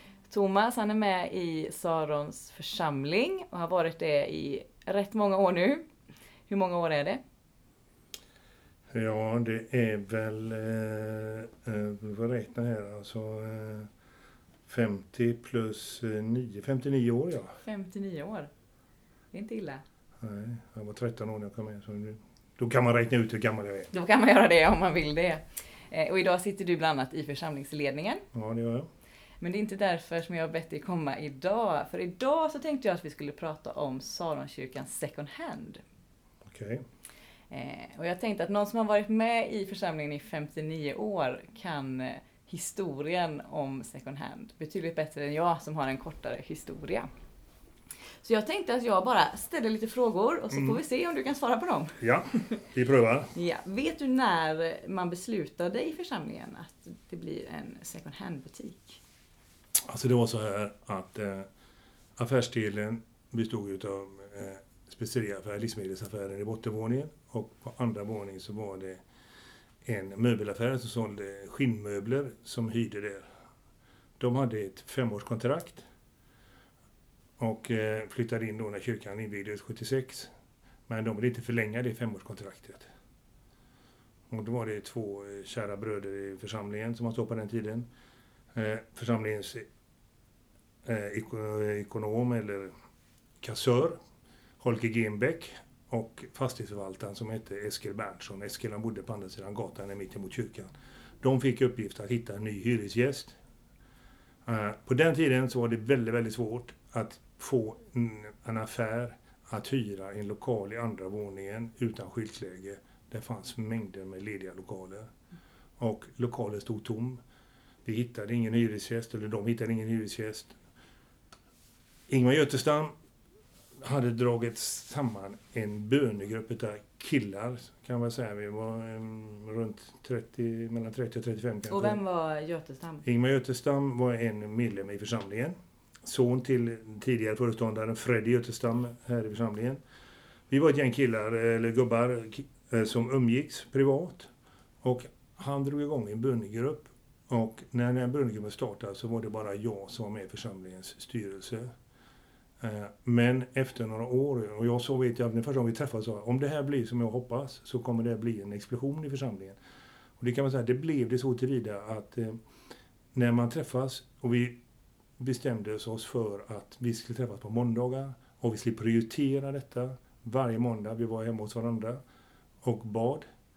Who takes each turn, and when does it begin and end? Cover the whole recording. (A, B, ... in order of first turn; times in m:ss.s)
0:00.3-0:05.8 A
0:06.5-0:07.2 A
0:08.9-0:13.9 B
0:14.7-0:17.5 B
0:17.6-0:18.5 A
0:19.3-0:19.8 A
0:20.2-0:23.9 B
0:23.9-0:28.2 A
0:28.3-0:28.9 B
0:29.4-0:35.8 A
0:36.5-0:36.8 B
0:37.5-0:47.1 A
0:48.2-0:52.0 A
0:50.5-0:50.8 B
0:52.0-0:53.3 B
0:53.4-0:59.0 A
0:59.9-1:01.5 B
1:02.2-1:09.0 B
1:09.8-1:13.3 B
1:14.2-1:15.8 B
1:17.4-1:20.3 B
1:20.9-1:22.9 B
1:24.3-1:27.9 B
1:28.5-1:29.7 B
1:30.8-1:32.7 B
1:33.4-1:34.0 B
1:34.6-1:43.4 B
1:44.5-1:55.1 B
1:55.8-1:57.2 B
1:57.8-2:00.6 B
2:02.1-2:02.9 B
2:03.8-2:12.0 B
2:11.7-2:13.0 A
2:13.0-2:19.8 B
2:20.5-2:24.3 B
2:24.8-2:31.7 B
2:32.6-2:39.6 B
2:40.2-2:42.4 B
2:43.2-2:44.6 B
2:45.2-2:52.0 B
2:52.6-2:53.2 B